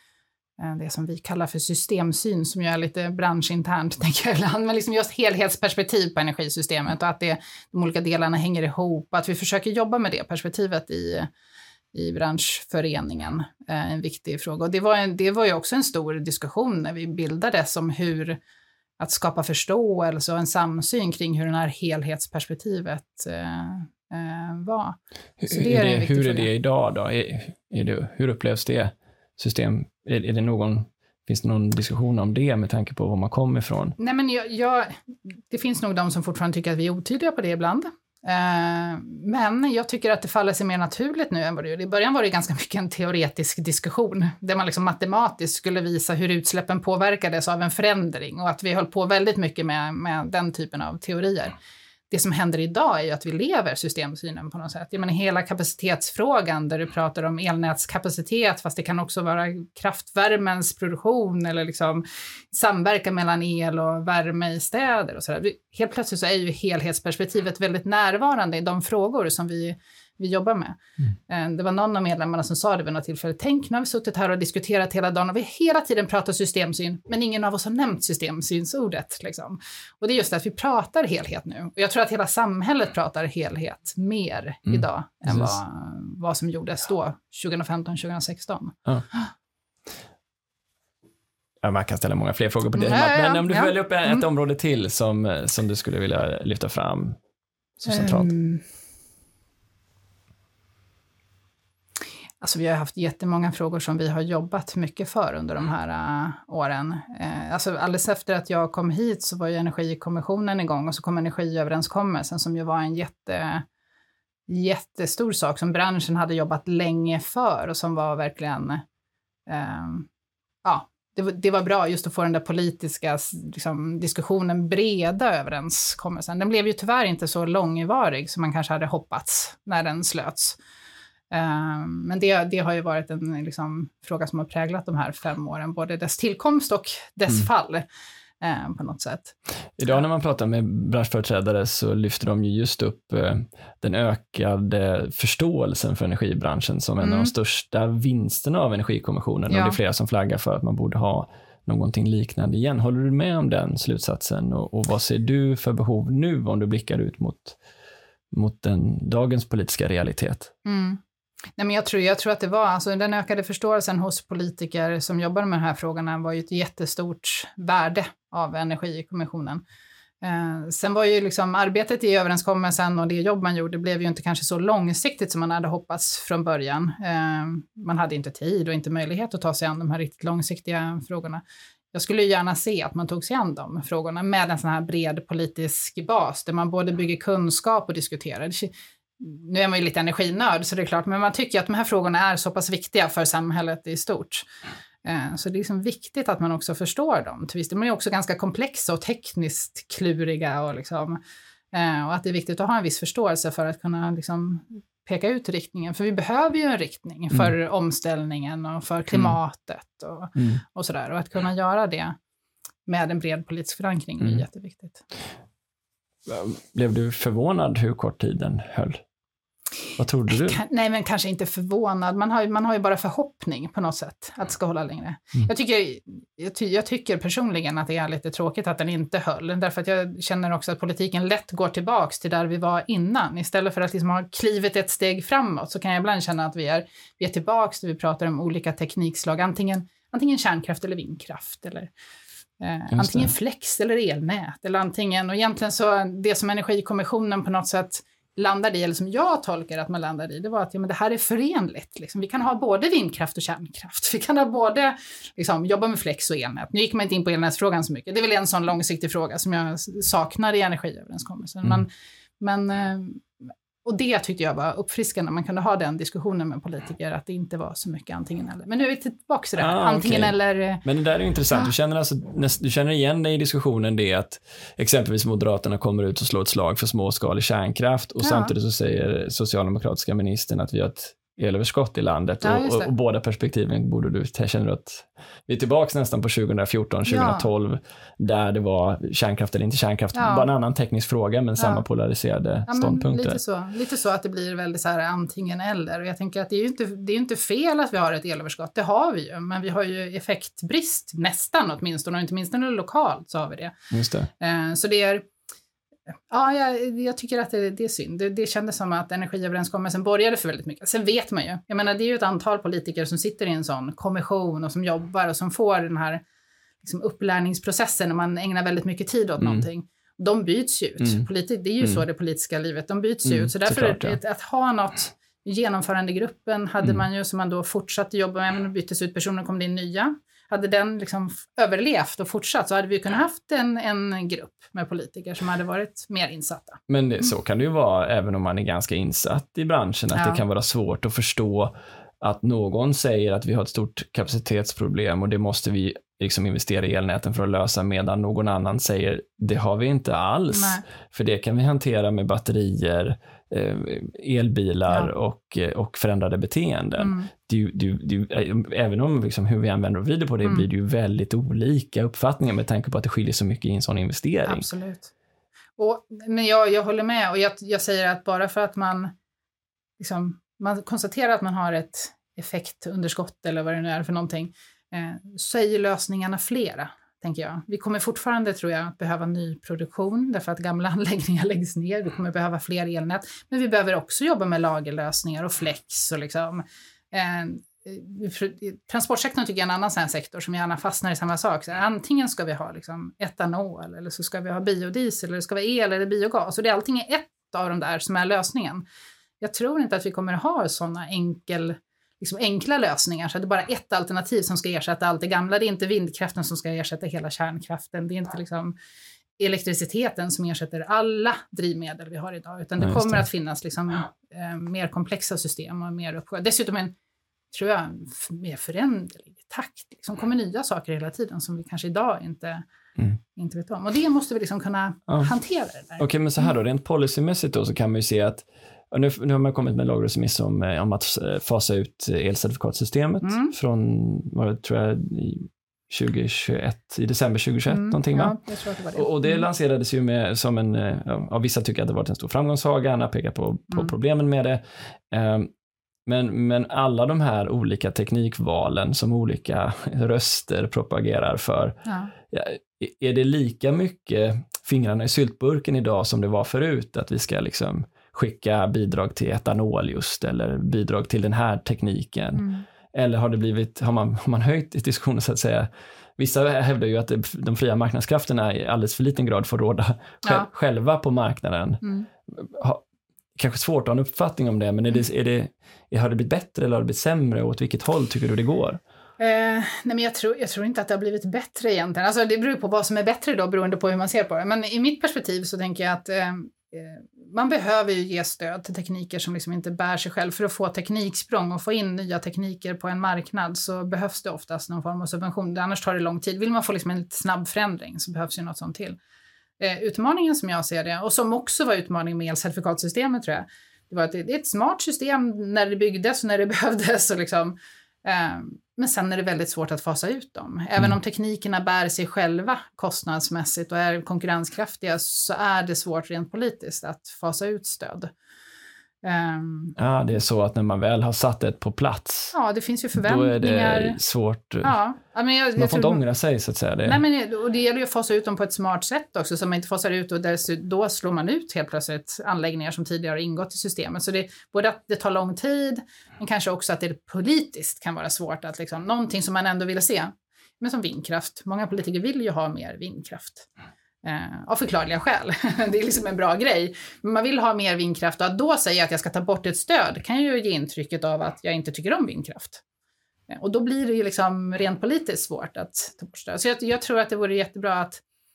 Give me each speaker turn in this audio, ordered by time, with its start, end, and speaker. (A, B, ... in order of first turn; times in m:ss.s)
0:00.6-0:11.3 A
0:11.9-0:18.4 A
0:19.0-0:26.5 A
0:25.4-0:34.0 B
0:34.0-0:35.0 A
0:35.5-0:51.6 A
0:52.1-1:10.8 A
1:11.3-1:29.3 A
1:24.7-1:25.6 B
1:31.6-1:37.2 B
1:32.7-1:34.2 A
1:37.8-1:38.3 B
1:37.9-1:38.6 A
1:42.4-1:53.7 A
1:54.5-1:58.8 A
1:59.5-2:00.1 A
2:00.6-2:10.6 A
2:11.3-2:17.9 A
2:18.4-2:19.3 A
2:19.8-2:37.6 B
2:27.0-2:27.3 A
2:29.5-2:29.8 A
2:38.3-2:40.5 B
2:40.6-2:41.0 A
2:41.6-2:49.6 A
2:50.2-3:14.4 A
3:15.0-3:21.2 A
3:21.7-3:32.1 A
3:30.4-3:30.6 B
3:32.9-3:35.0 A
3:36.3-3:39.0 B
3:40.0-3:40.6 B
3:40.3-4:01.9 A
4:02.6-4:23.3 A
4:02.9-4:03.3 B
4:23.8-4:30.8 A
4:29.6-4:53.4 B
4:38.2-4:38.5 A
4:42.4-4:42.9 A
4:47.1-4:47.5 A
4:50.1-4:50.5 A
4:51.6-4:51.8 A
4:52.7-5:03.7 A
5:03.9-5:04.3 B
5:04.4-5:05.2 A
5:06.3-5:16.2 A
5:16.8-5:36.8 A
5:21.0-5:21.2 B
5:23.2-5:24.2 B
5:36.9-6:04.7 B
5:40.1-5:40.4 A
5:50.5-5:50.8 A
5:57.0-5:57.3 A
6:04.5-6:05.1 A
6:05.8-6:09.1 A
6:10.0-6:38.8 A
6:39.4-6:48.8 A
6:49.4-6:56.9 A
6:52.8-6:53.2 B
6:57.5-7:02.6 A
7:03.4-7:06.5 A
7:06.0-7:18.4 B
7:13.2-7:13.5 A
7:17.7-7:19.4 A
7:18.9-7:25.5 B
7:26.1-7:52.8 B
7:31.9-7:32.1 A
7:42.4-7:42.6 A
7:51.8-7:52.1 A
7:53.4-7:58.8 B
7:59.2-8:19.0 A
8:19.6-8:38.1 A
8:39.0-8:39.8 A
8:39.8-8:42.4 B
8:42.3-8:44.0 A
8:43.0-8:44.8 B
8:44.6-8:46.0 A
8:45.6-8:47.0 B
8:46.9-9:03.5 A
9:04.0-9:12.6 A
9:13.3-9:18.0 A